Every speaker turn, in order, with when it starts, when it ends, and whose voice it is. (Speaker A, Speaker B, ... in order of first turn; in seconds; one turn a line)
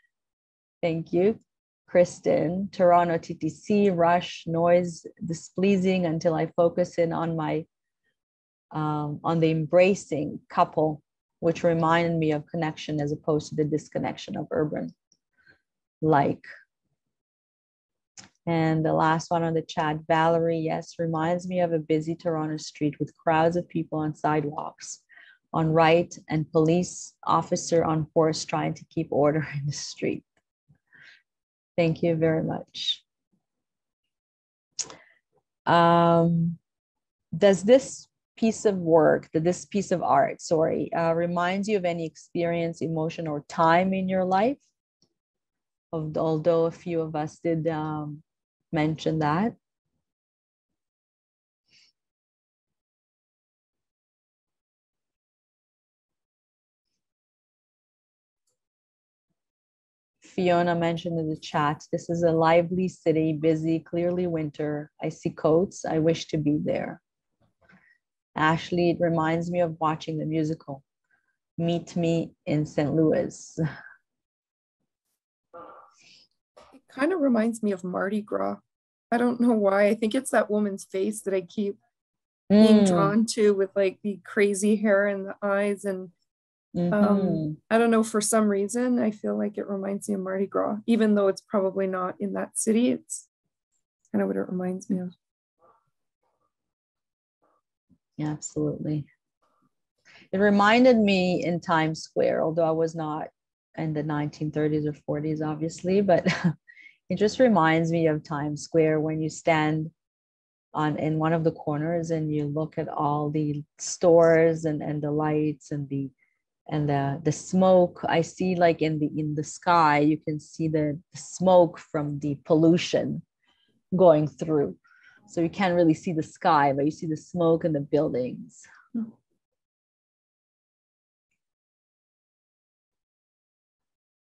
Speaker A: 0.8-7.7
Speaker A: 8.7-14.9
Speaker A: 16.0-16.4
Speaker A: 18.5-25.0
Speaker A: 25.5-30.2
Speaker A: 31.8-33.0
Speaker A: 35.7-36.6
Speaker A: 37.3-44.6
Speaker A: 45.9-49.5
Speaker A: 60.2-67.0
Speaker A: 68.3-70.8
Speaker A: 71.6-73.6
Speaker B: 76.8-81.8
Speaker A: 82.5-83.2
Speaker B: 82.6-86.1
Speaker A: 86.8-87.6
Speaker B: 86.9-93.3
Speaker B: 94.1-95.1
Speaker A: 98.2-99.1
Speaker A: 100.3-106.5
Speaker A: 107.1-109.9
Speaker A: 110.7-116.1
Speaker A: 116.7-123.2
Speaker A: 123.9-128.7